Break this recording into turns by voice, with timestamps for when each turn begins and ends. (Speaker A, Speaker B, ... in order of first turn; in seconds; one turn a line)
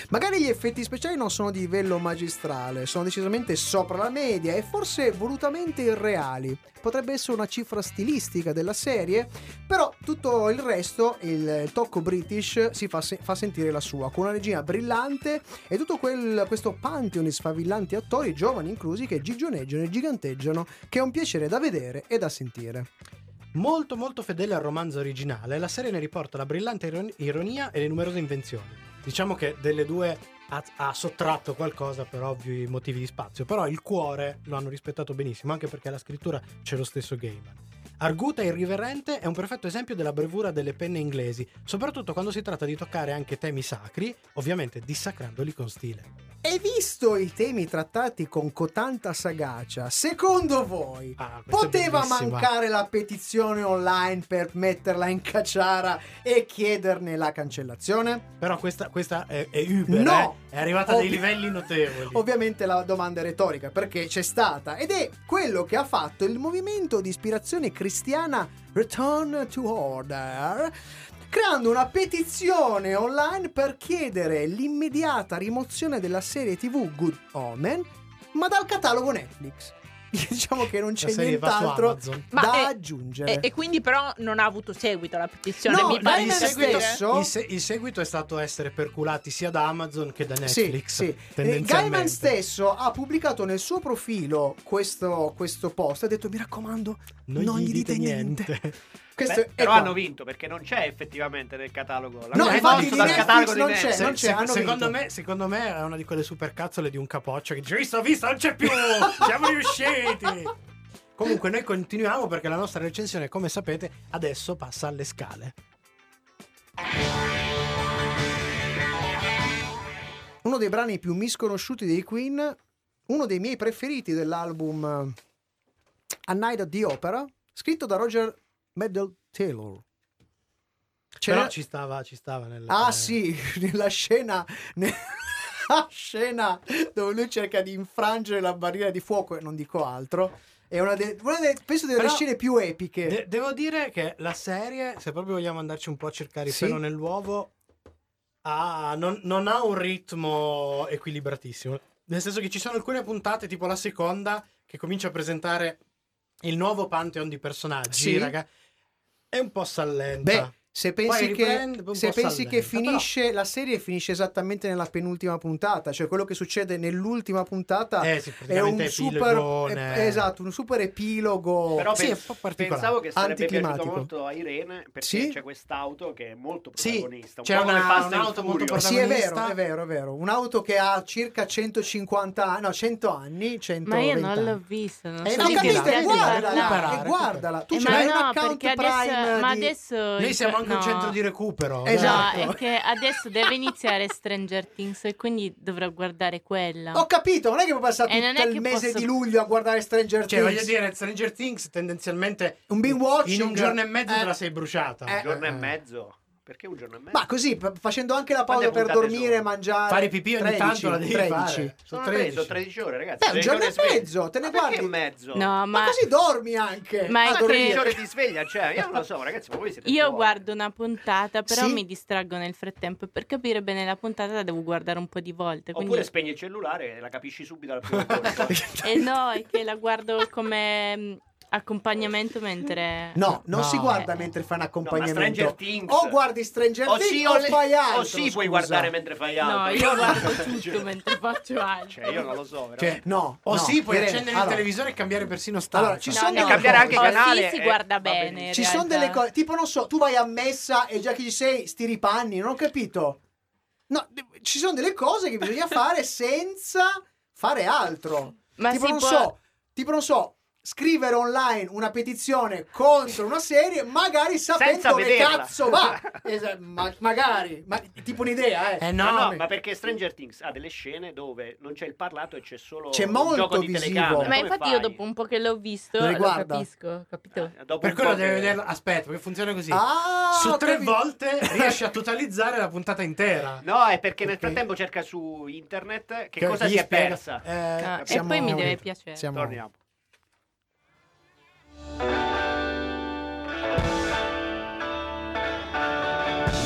Speaker A: 0.1-22.9
Speaker B: 23.5-46.1
Speaker A: 46.4-58.3
Speaker B: 51.2-52.5
Speaker B: 58.4-62.2
Speaker A: 59.9-70.8
Speaker A: 71.3-83.5
Speaker B: 81.0-82.3
Speaker C: 82.3-82.7
Speaker C: 83.2-87.0
Speaker A: 85.7-87.3
Speaker B: 85.7-92.3
Speaker A: 90.4-98.5
Speaker B: 97.3-98.7
Speaker A: 99.2-100.0
Speaker D: 99.3-104.2
Speaker A: 102.3-104.9
Speaker B: 102.3-110.5
Speaker A: 108.7-109.3
Speaker B: 111.2-115.5
Speaker A: 120.4-122.6
Speaker A: 123.1-125.2
Speaker A: 126.3-129.8
Speaker A: 131.2-131.5
Speaker B: 131.2-133.2
Speaker A: 132.7-143.2
Speaker B: 142.0-142.2
Speaker B: 143.1-147.5
Speaker A: 146.5-146.8
Speaker B: 148.4-155.8
Speaker B: 156.4-158.5
Speaker A: 157.9-158.3
Speaker B: 159.3-163.1
Speaker A: 160.2-172.1
Speaker B: 168.0-170.2
Speaker D: 171.8-178.9
Speaker B: 171.8-173.0
Speaker A: 173.1-174.1
Speaker A: 175.0-175.4
Speaker B: 176.8-179.6
Speaker A: 178.7-184.6
Speaker E: 183.8-187.0
Speaker B: 185.2-188.1
Speaker A: 185.3-189.7
Speaker E: 187.7-191.2
Speaker B: 190.2-192.5
Speaker A: 191.8-192.6
Speaker E: 191.8-197.1
Speaker A: 196.9-200.7
Speaker E: 198.1-199.1
Speaker B: 200.3-205.7
Speaker A: 202.7-204.3
Speaker D: 205.1-207.2
Speaker A: 207.1-211.8
Speaker D: 208.5-209.4
Speaker B: 209.9-212.6
Speaker D: 211.9-215.5
Speaker A: 213.2-214.9
Speaker E: 215.3-216.0
Speaker A: 215.7-218.0
Speaker E: 217.1-217.8
Speaker D: 217.3-220.4
Speaker E: 219.8-226.1
Speaker A: 221.5-221.8
Speaker D: 225.7-228.6
Speaker B: 228.0-228.4
Speaker A: 228.5-228.8
Speaker E: 228.8-233.3
Speaker A: 233.1-238.9
Speaker B: 233.5-234.0
Speaker D: 234.8-236.2
Speaker D: 236.8-240.9
Speaker E: 239.4-242.3
Speaker D: 241.9-243.0
Speaker B: 242.8-247.0
Speaker A: 243.0-244.7
Speaker A: 245.7-247.2
Speaker E: 246.1-249.2
Speaker D: 246.3-248.5
Speaker A: 248.5-253.2
Speaker A: 253.9-269.4
Speaker E: 258.6-259.3
Speaker D: 264.6-266.1
Speaker B: 268.8-269.3
Speaker D: 269.0-275.0
Speaker A: 272.9-274.4
Speaker E: 274.2-277.5
Speaker A: 276.0-276.7
Speaker D: 277.3-278.6
Speaker B: 277.8-283.6
Speaker A: 279.7-281.8
Speaker D: 283.6-287.5
Speaker B: 284.3-284.6
Speaker B: 286.4-288.2
Speaker E: 287.8-289.3
Speaker A: 288.1-289.6
Speaker D: 289.3-289.8